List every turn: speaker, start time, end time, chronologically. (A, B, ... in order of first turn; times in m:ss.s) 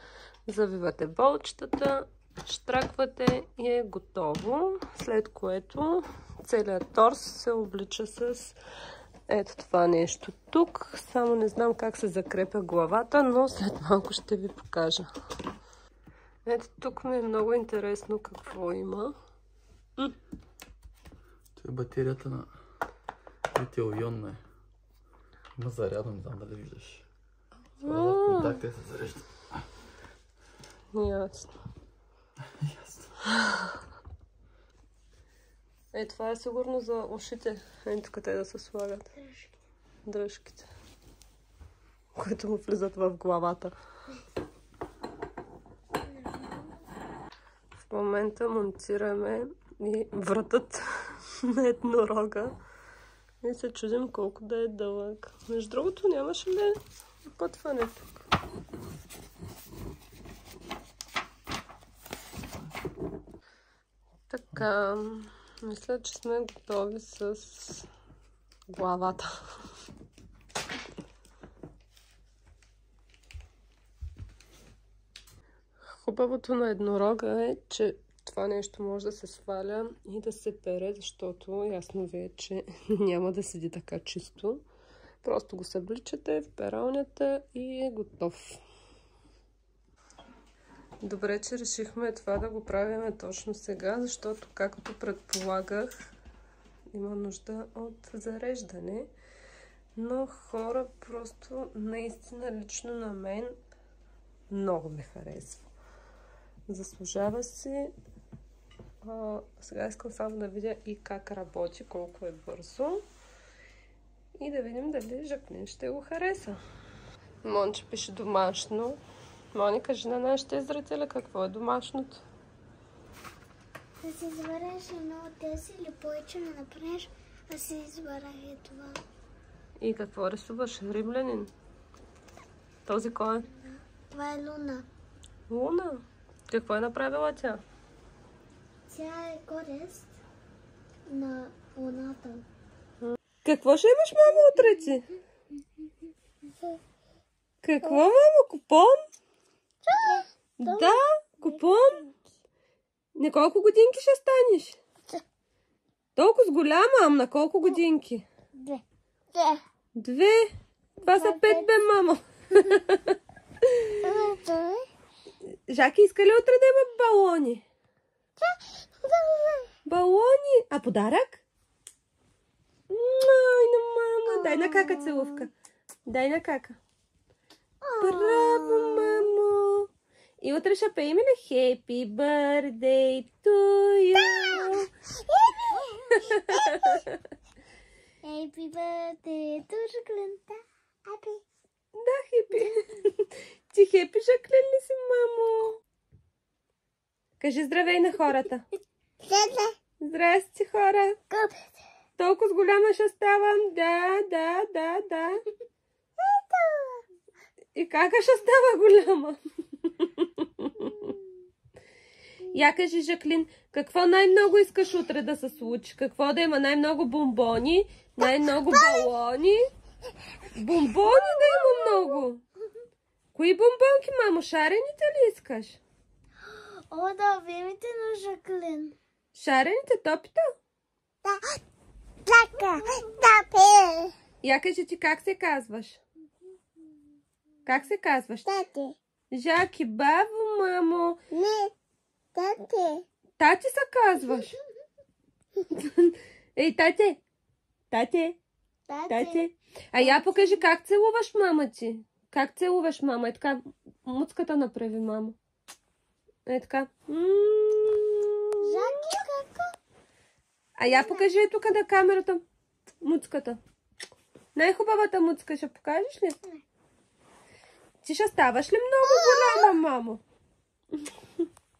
0:00.5-0:08.6 A
0:09.3-0:15.1 A
0:16.5-0:19.1 A
0:21.6-0:22.5 B
0:23.5-0:24.4 B
0:25.6-0:27.1 B
0:27.8-0:28.6 A
0:27.8-0:29.6 B
0:30.9-0:31.5 A
0:32.6-0:33.2 B
0:35.9-0:39.1 A
0:39.2-0:39.5 C
0:40.1-0:40.7 A
0:42.2-0:43.7 A
0:46.2-0:46.6 C
0:47.8-0:52.5 A
0:53.4-0:56.8 A
0:57.4-0:58.2 A
1:04.3-1:07.9 A
1:08.7-1:09.4 A
1:15.9-1:24.6 A
1:25.2-1:28.6 A
1:31.0-1:35.9 A
1:36.9-1:39.1 A
1:40.0-1:43.6 A
1:44.5-1:45.6 A
1:46.7-1:47.9 A
1:49.0-1:53.0 A
1:54.4-1:56.6 A
1:57.4-1:59.0 A
1:59.5-2:02.2 A
2:04.0-2:09.0 C
2:09.8-2:11.5 A
2:12.9-2:13.5 A
2:14.1-2:14.9 C
2:15.5-2:17.6 A
2:18.9-2:20.1 C
2:21.1-2:22.4 C
2:23.0-2:25.1 A
2:27.6-2:29.0 A
2:29.9-2:31.0 C
2:30.6-2:32.1 A
2:33.2-2:34.8 A
2:36.2-2:38.3 A
2:38.6-2:38.8 C
2:39.3-2:39.6 C
2:40.0-2:44.1 A
2:41.0-2:41.7 C
2:44.0-2:44.8 C
2:45.7-2:47.6 A
2:48.4-2:49.7 C
2:49.9-2:51.4 A
2:52.9-2:55.5 A
2:54.3-2:55.5 C
2:56.1-2:56.8 A
2:57.8-2:59.3 C
2:58.0-2:59.9 A
3:00.4-3:04.9 A
3:04.3-3:07.0 C
3:06.1-3:07.2 A
3:08.2-3:11.4 C
3:12.0-3:15.8 A
3:17.4-3:18.6 A
3:19.2-3:19.8 C
3:20.0-3:21.2 A
3:21.3-3:21.7 C
3:22.2-3:25.4 A
3:26.2-3:27.0 C
3:27.8-3:31.1 A
3:32.5-3:39.7 A
3:40.6-3:42.4 A
3:41.2-3:42.0 C
3:43.4-3:45.8 A
3:46.5-3:49.0 C
3:49.3-3:50.6 A
3:51.2-3:51.6 C
3:52.3-3:54.1 C
3:54.4-3:56.0 A
3:57.6-3:58.5 A
3:58.5-3:59.0 C
3:59.3-4:01.2 A
4:01.3-4:01.7 C
4:02.4-4:03.0 C
4:03.4-4:04.6 A
4:05.7-4:07.2 A
4:07.9-4:08.4 A
4:08.9-4:09.4 C
4:09.1-4:15.4 A
4:10.0-4:10.6 C
4:16.5-4:19.2 A
4:18.6-4:19.7 C
4:20.8-4:22.4 A
4:20.9-4:21.3 C
4:23.0-4:23.6 A
4:24.6-4:26.4 A
4:28.0-4:30.2 A
4:29.2-4:29.6 C